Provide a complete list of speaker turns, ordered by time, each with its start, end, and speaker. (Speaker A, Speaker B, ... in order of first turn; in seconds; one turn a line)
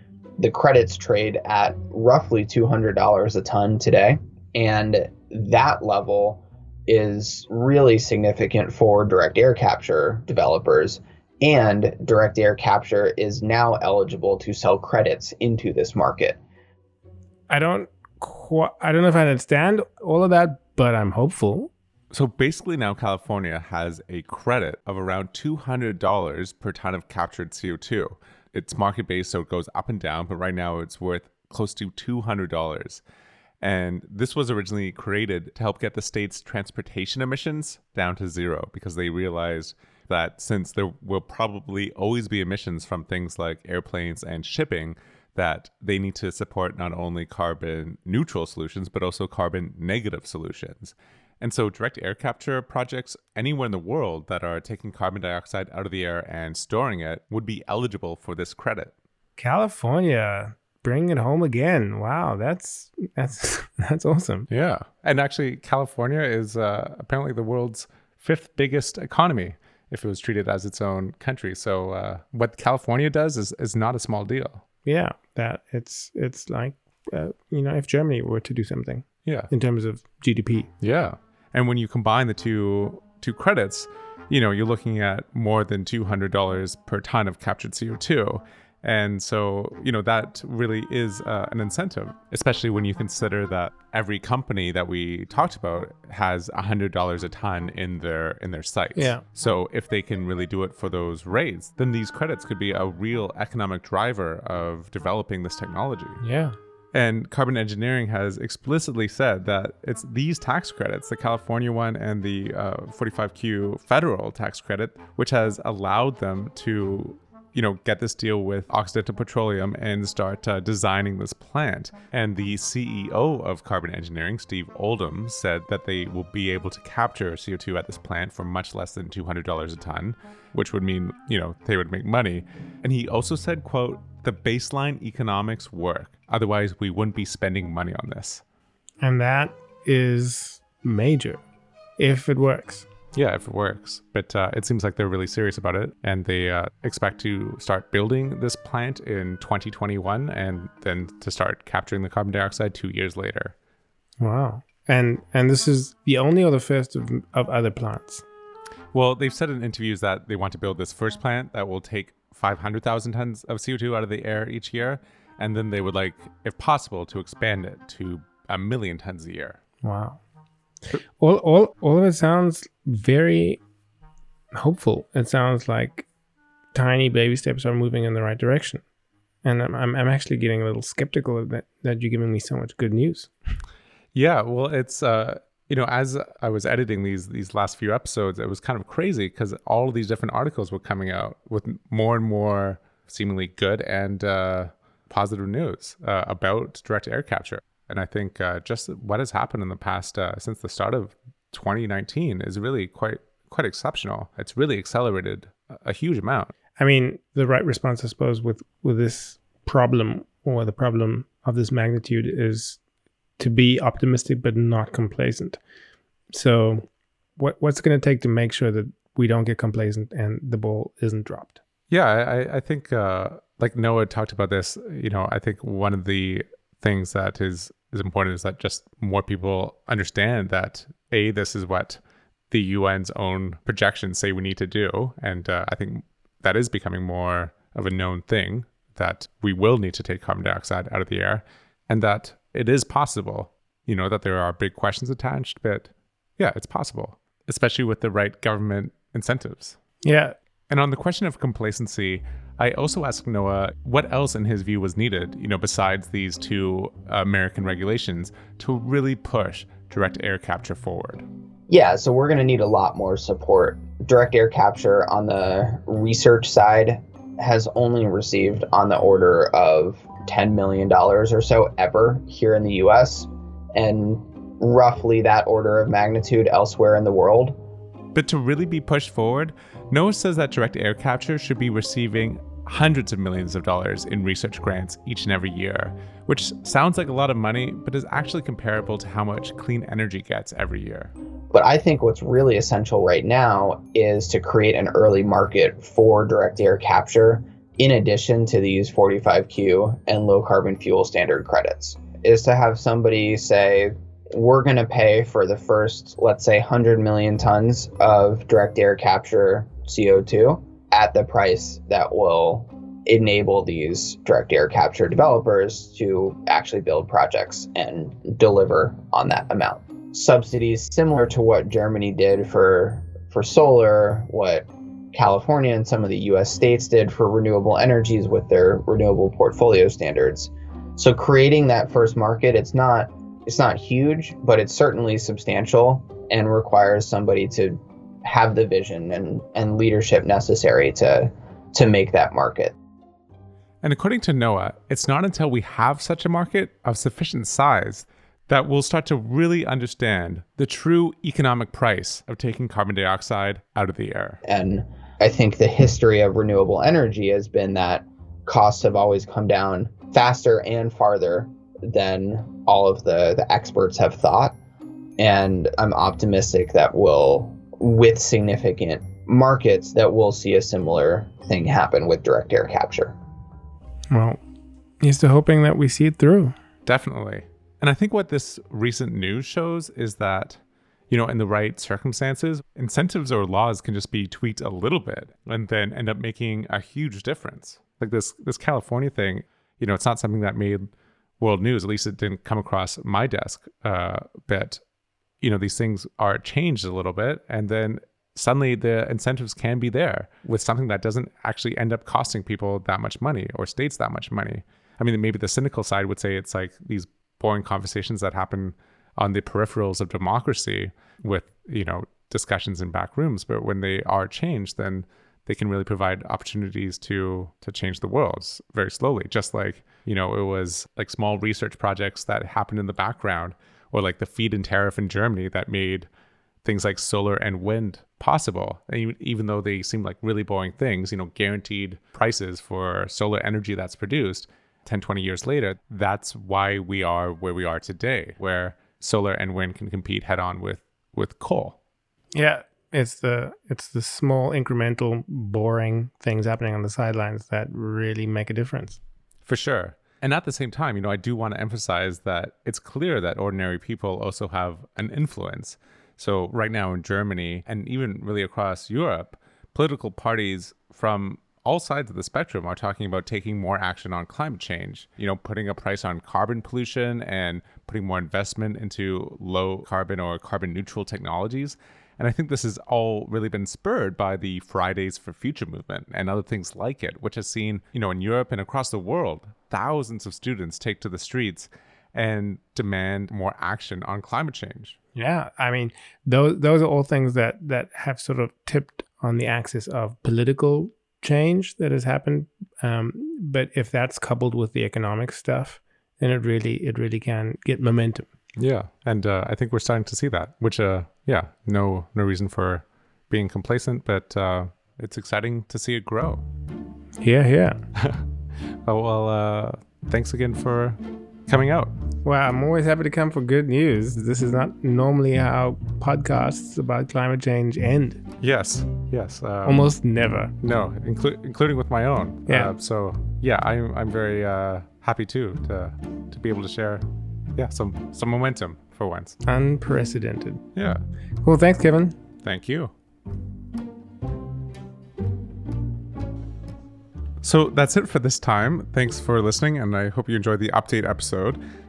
Speaker A: 0.4-16.4
Speaker B: 17.5-21.7
Speaker C: 22.1-33.0
Speaker C: 33.6-58.9
Speaker B: 59.4-64.5
Speaker C: 64.5-74.6
Speaker B: 74.8-80.7
Speaker C: 80.8-106.2
Speaker B: 99.0-99.2
Speaker B: 106.2-106.5
Speaker C: 106.9-138.4
Speaker B: 139.0-141.4
Speaker B: 142.0-142.9
Speaker C: 143.1-153.5
Speaker B: 154.2-158.2
Speaker C: 158.9-169.6
Speaker B: 169.8-170.2
Speaker B: 171.2-173.6
Speaker B: 174.5-176.1
Speaker B: 176.7-178.8
Speaker B: 179.4-183.3
Speaker C: 184.1-206.5
Speaker B: 206.8-212.8
Speaker B: 213.4-215.6
Speaker B: 216.3-216.8
Speaker B: 217.4-221.6
Speaker C: 221.9-249.8
Speaker B: 250.0-250.3
Speaker C: 250.7-261.2
Speaker A: 261.7-277.6
Speaker C: 278.1-291.1
Speaker A: 291.5-342.7
Speaker C: 343.8-354.4
Speaker A: 354.4-364.6
Speaker A: 365.2-373.1
Speaker B: 374.1-374.4
Speaker B: 375.0-376.5
Speaker C: 376.9-390.9
Speaker C: 391.4-394.8
Speaker C: 395.4-426.1
Speaker C: 426.6-441.8
Speaker B: 442.3-449.0
Speaker C: 449.4-484.9
Speaker B: 485.1-498.3
Speaker C: 498.6-506.4
Speaker B: 507.2-507.8
Speaker C: 507.9-508.2
Speaker C: 508.8-511.9
Speaker B: 512.2-518.2
Speaker C: 518.4-519.9
Speaker B: 519.6-520.5
Speaker C: 520.6-527.0
Speaker B: 522.5-522.7
Speaker C: 527.5-529.4
Speaker B: 529.4-530.6
Speaker C: 530.7-531.0
Speaker B: 531.4-532.2
Speaker C: 532.4-532.9
Speaker C: 537.4-541.6